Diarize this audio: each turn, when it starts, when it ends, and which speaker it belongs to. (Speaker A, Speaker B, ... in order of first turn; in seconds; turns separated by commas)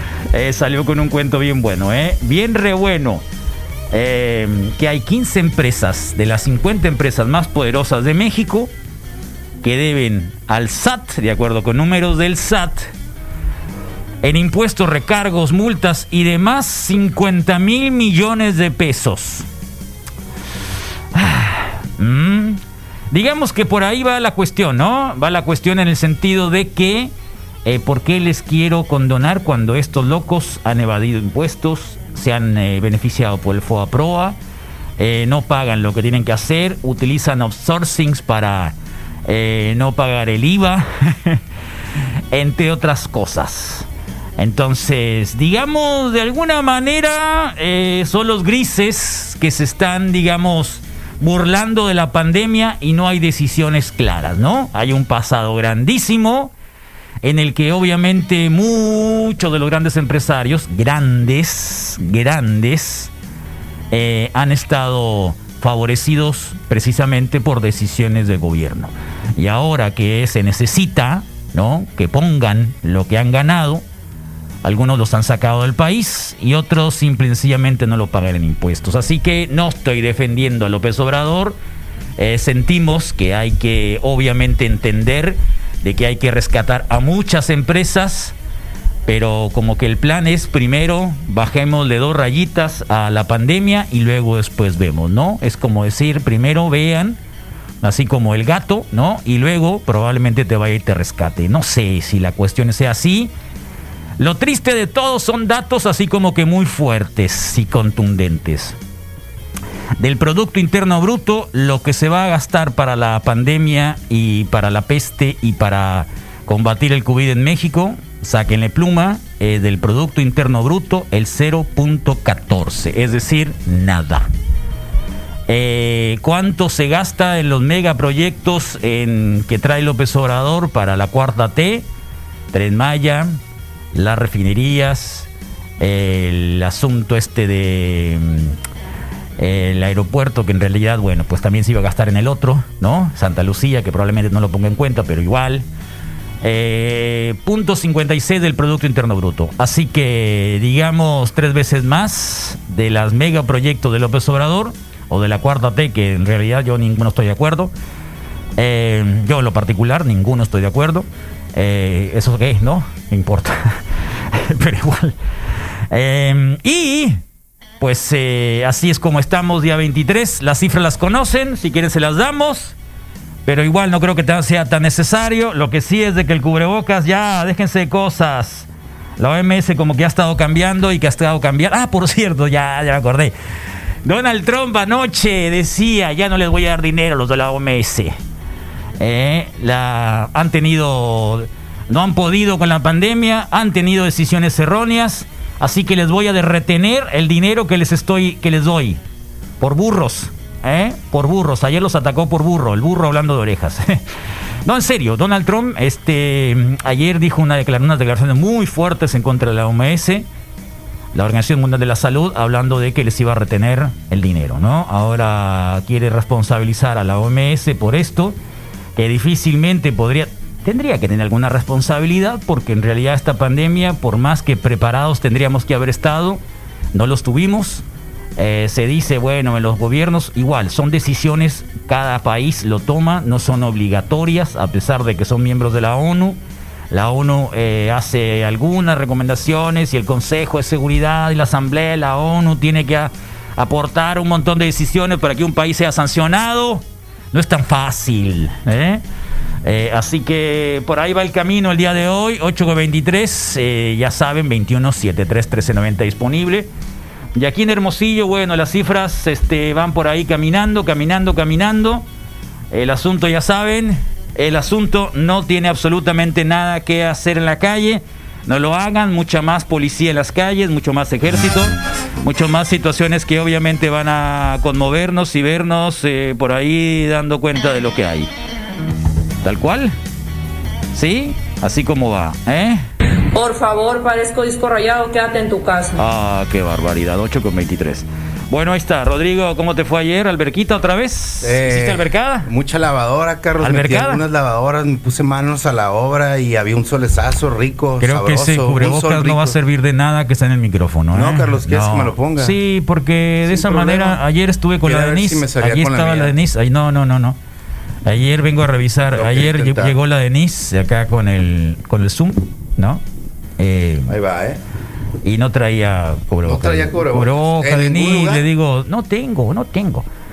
Speaker A: 0.3-3.2, Speaker A: 3.9-8.7, Speaker A: 9.6-12.9, Speaker A: 14.2-19.4, Speaker A: 21.1-27.1, Speaker A: 27.6-34.4, Speaker A: 35.0-38.7, Speaker A: 39.2-41.4, Speaker A: 42.3-43.9, Speaker A: 44.4-56.5, Speaker A: 57.2-63.1, Speaker A: 63.9-73.8, Speaker A: 74.6-81.6, Speaker A: 82.2-88.3, Speaker A: 89.0-97.2, Speaker A: 97.8-103.3, Speaker A: 104.2-108.8, Speaker A: 110.0-124.3, Speaker A: 125.5-131.8, Speaker A: 132.5-133.4, Speaker A: 133.9-135.3, Speaker A: 135.8-138.6, Speaker A: 139.4-145.7, Speaker A: 146.4-157.7, Speaker A: 158.6-163.7, Speaker A: 164.3-165.2, Speaker A: 165.9-167.2, Speaker A: 167.8-172.8, Speaker A: 173.4-183.3, Speaker A: 184.0-188.1, Speaker A: 189.0-199.0, Speaker A: 199.6-204.0, Speaker A: 204.6-210.3, Speaker A: 211.1-218.4, Speaker A: 218.9-226.4, Speaker A: 226.9-227.8, Speaker A: 228.4-236.4, Speaker A: 236.9-249.0, Speaker A: 249.6-256.7, Speaker A: 257.3-262.1, Speaker A: 262.7-278.3, Speaker A: 279.4-279.9, Speaker A: 280.9-282.8, Speaker B: 283.3-286.0, Speaker A: 285.9-292.5, Speaker C: 291.4-299.6, Speaker A: 293.6-294.2, Speaker A: 298.0-307.4, Speaker C: 301.1-302.6, Speaker C: 303.4-304.2, Speaker C: 304.8-306.3, Speaker A: 308.0-313.0, Speaker C: 309.1-310.0, Speaker A: 313.6-314.1, Speaker C: 314.1-314.6, Speaker A: 315.2-320.1, Speaker C: 316.4-318.4